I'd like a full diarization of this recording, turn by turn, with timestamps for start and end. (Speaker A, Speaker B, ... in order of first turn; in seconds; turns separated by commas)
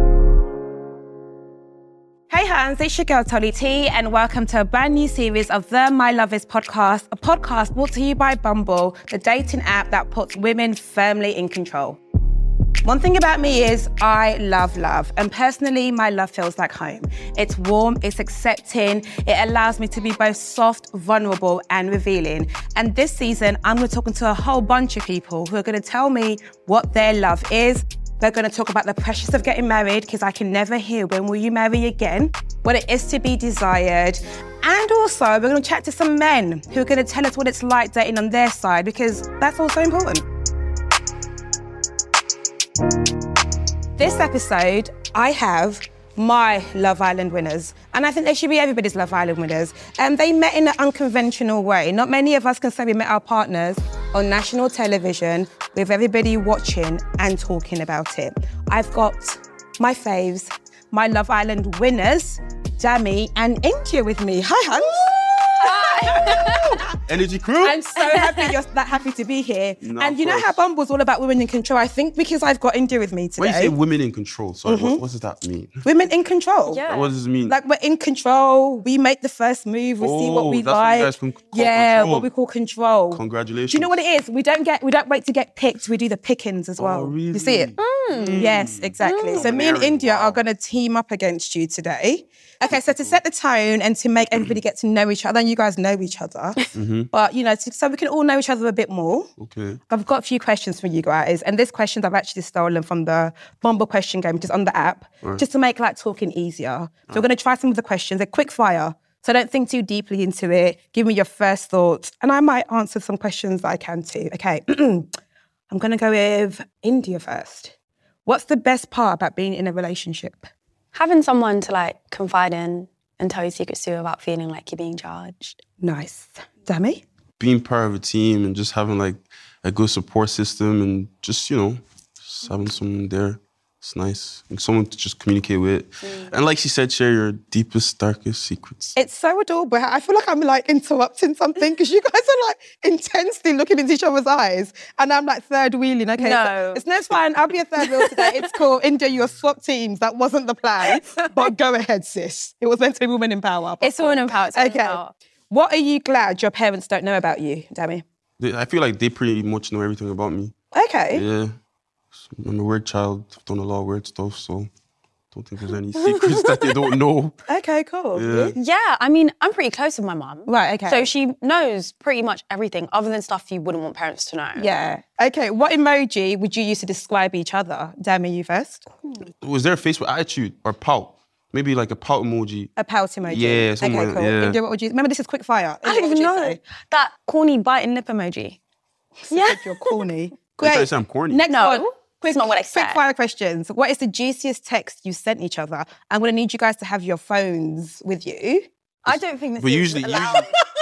Speaker A: 2.3-12.0, Speaker A: 12.8-40.2, Speaker A: 44.0-67.0, Speaker B: 65.6-66.9, Speaker C: 67.0-67.8, Speaker A: 67.6-73.7, Speaker B: 68.0-68.5, Speaker C: 69.8-70.6, Speaker C: 73.4-75.8, Speaker A: 74.6-75.0, Speaker A: 75.8-76.8, Speaker B: 76.7-77.1, Speaker C: 76.9-77.5, Speaker A: 77.5-87.7, Speaker C: 80.0-82.3, Speaker C: 83.1-84.0, Speaker C: 86.8-90.4, Speaker B: 87.8-89.5, Speaker A: 88.3-96.6, Speaker C: 92.7-93.2, Speaker C: 96.7-97.1, Speaker A: 97.1-99.3, Speaker C: 99.4-99.8, Speaker A: 99.9-115.1, Speaker A: 115.7-117.7, Speaker A: 118.2-120.5, Speaker B: 120.9-125.6, Speaker A: 125.8-127.0, Speaker C: 127.4-138.9, Speaker B: 136.0-136.3, Speaker A: 138.9-158.0, Speaker B: 146.2-146.8, Speaker B: 147.8-148.6, Speaker B: 150.8-151.5, Speaker B: 153.8-155.1, Speaker C: 158.4-160.5, Speaker A: 160.7-161.2, Speaker C: 161.1-161.5, Speaker C: 162.2-164.7, Speaker C: 165.3-167.3, Speaker B: 165.9-166.9, Speaker A: 167.5-168.5, Speaker C: 168.1-168.6, Speaker B: 168.5-174.7, Speaker A: 170.5-171.1, Speaker A: 174.6-178.8, Speaker C: 179.4-182.7, Speaker A: 182.8-186.6, Speaker C: 183.2-184.6, Speaker B: 185.8-188.6, Speaker A: 189.3-198.7, Speaker B: 189.3-190.0, Speaker C: 190.6-191.4, Speaker B: 191.5-193.0, Speaker B: 199.0-200.6, Speaker C: 199.1-200.5